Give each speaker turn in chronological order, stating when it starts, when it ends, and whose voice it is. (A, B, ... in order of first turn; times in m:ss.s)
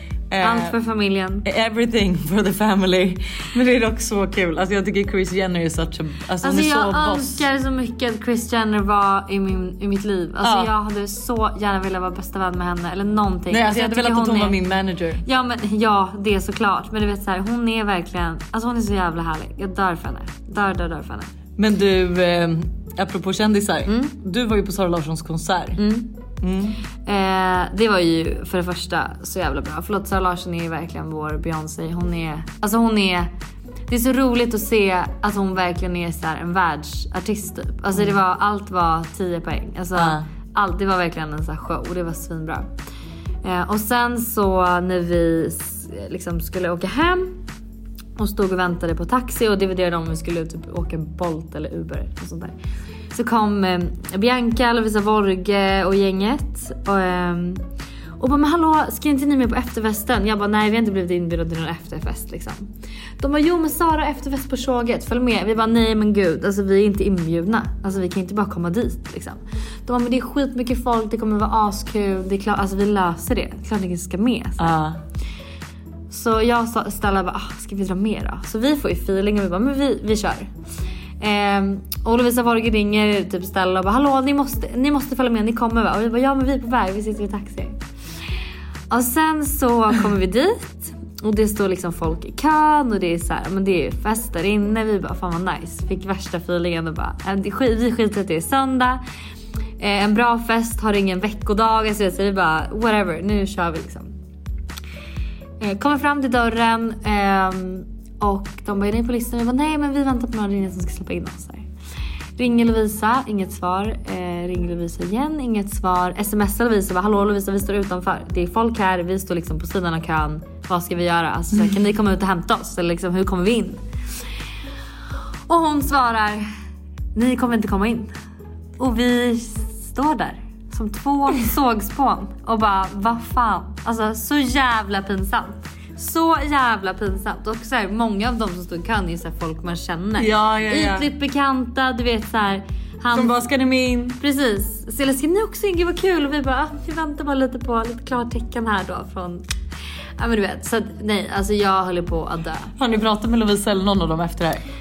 0:00.3-0:00.8 A
0:00.4-0:01.4 B
0:01.4-0:07.4 A
0:06.4-0:14.6 B
0:10.4-0:10.7 A
0:13.5-0:15.2 A
0:15.2-0:21.3 B
0:21.6-0:25.8 A
0:23.8-0:24.1 B
0:25.8-0:26.1 B
0:26.4-0:26.8 A
0:27.0-0:33.3 B
0:33.9-0:42.7 B
0:39.9-0:40.3 A
0:43.4-0:47.4 B
0:48.2-0:52.6 B
0:53.1-0:57.6 B
0:58.2-1:14.8 B
1:14.6-1:15.0 A
1:16.1-1:20.5 B
1:21.2-1:27.8 B
1:28.9-1:39.0 B
1:39.8-1:44.1 B
1:45.6-1:51.6 B
1:52.4-2:03.8 B
2:05.5-2:06.4 B
2:07.1-2:08.1 B
2:08.8-2:23.5 B
2:20.2-2:21.1 A
2:23.1-2:24.2 A
2:24.2-2:29.4 B
2:30.2-2:32.7 B
2:32.8-2:34.6 A